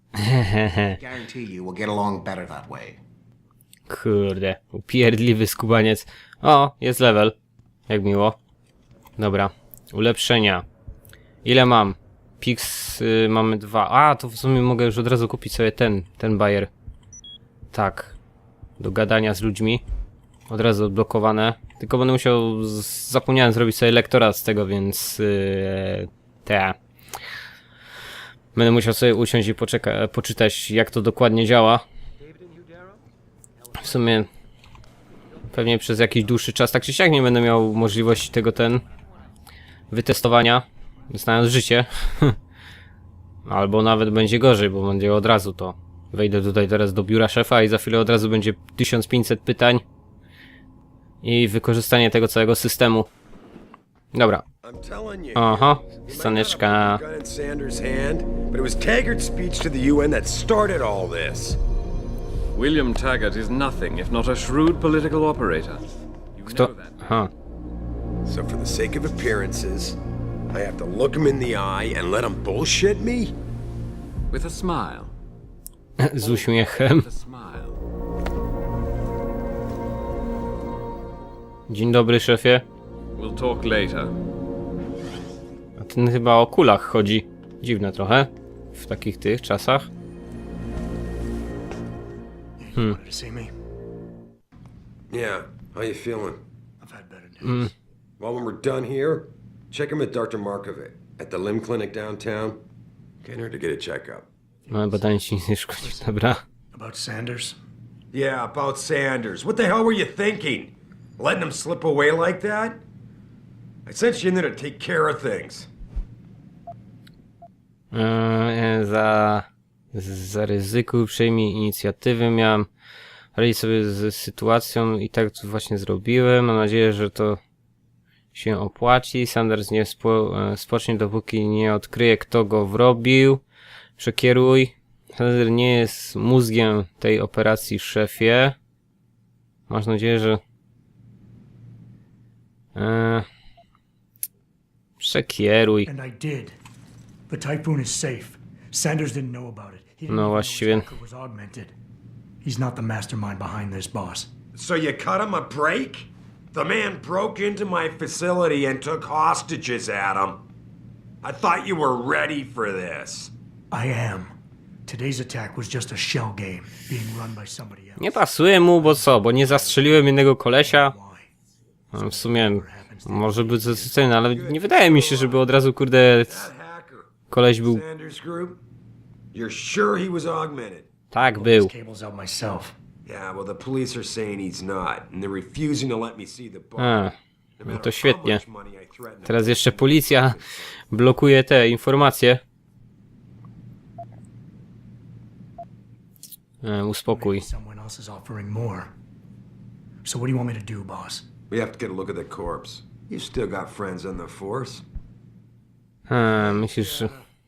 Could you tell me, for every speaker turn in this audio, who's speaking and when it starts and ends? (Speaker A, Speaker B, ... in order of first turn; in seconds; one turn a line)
Speaker A: 0.1-1.0
Speaker B: 0.9-3.0
Speaker A: 3.9-7.3
Speaker A: 7.9-8.4
Speaker A: 9.2-10.6
Speaker A: 11.4-16.7
Speaker A: 17.7-18.1
Speaker A: 18.8-19.8
Speaker A: 20.5-26.8
Speaker A: 28.5-31.8
Speaker A: 33.8-34.3
Speaker A: 35.5-38.8
Speaker A: 39.9-42.4
Speaker A: 43.5-49.8
Speaker A: 51.2-53.1
Speaker A: 54.1-54.4
Speaker C: 54.6-61.6
Speaker A: 55.3-57.0
Speaker D: 62.5-67.0
Speaker A: 66.5-67.3
Speaker C: 68.2-70.0
Speaker C: 70.5-73.3
Speaker D: 74.3-75.1
Speaker A: 76.0-77.1
Speaker D: 76.2-77.8
Speaker A: 81.7-82.6
Speaker D: 83.2-84.1
Speaker A: 85.8-89.9
Speaker E: 92.6-93.5
Speaker C: 95.1-96.4
Speaker E: 96.8-97.7
Speaker A: 97.4-97.7
Speaker C: 98.2-102.6
Speaker C: 103.2-104.3
Speaker E: 104.7-106.1
Speaker A: 104.7-106.4
Speaker E: 106.7-107.6
Speaker C: 108.1-112.8
Speaker C: 113.8-115.7
Speaker A: 117.9-122.7
Speaker A: 123.3-127.4
Speaker A: 128.3-133.4
Speaker A: 134.0-138.6
Speaker A: 139.7-140.4
Speaker A: 142.7-143.3
Speaker A: 145.0-145.9
Speaker E: 145.8-146.6
Speaker E: 147.3-151.7
Speaker A: 150.1-150.9
Speaker E: 152.4-154.3
Speaker C: 154.5-160.4
Speaker C: 161.2-163.3
Speaker E: 163.7-164.3
Speaker E: 164.8-168.2
Speaker A: 168.0-170.9
Speaker E: 168.8-171.3
Speaker E: 171.9-174.1
Speaker A: 171.9-176.4
Speaker C: 174.3-175.4
Speaker C: 176.2-178.6
Speaker A: 177.3-177.8
Speaker C: 179.3-180.9
Speaker A: 181.1-181.7
Speaker E: 181.2-182.8
Speaker C: 183.1-190.8
Speaker A: 186.8-188.4
Speaker A: 189.2-192.4
Speaker A: 196.6-197.5
Speaker E: 197.1-198.9
Speaker E: 200.0-201.3
Speaker C: 201.5-204.8
Speaker A: 206.1-207.1
Speaker C: 206.3-207.2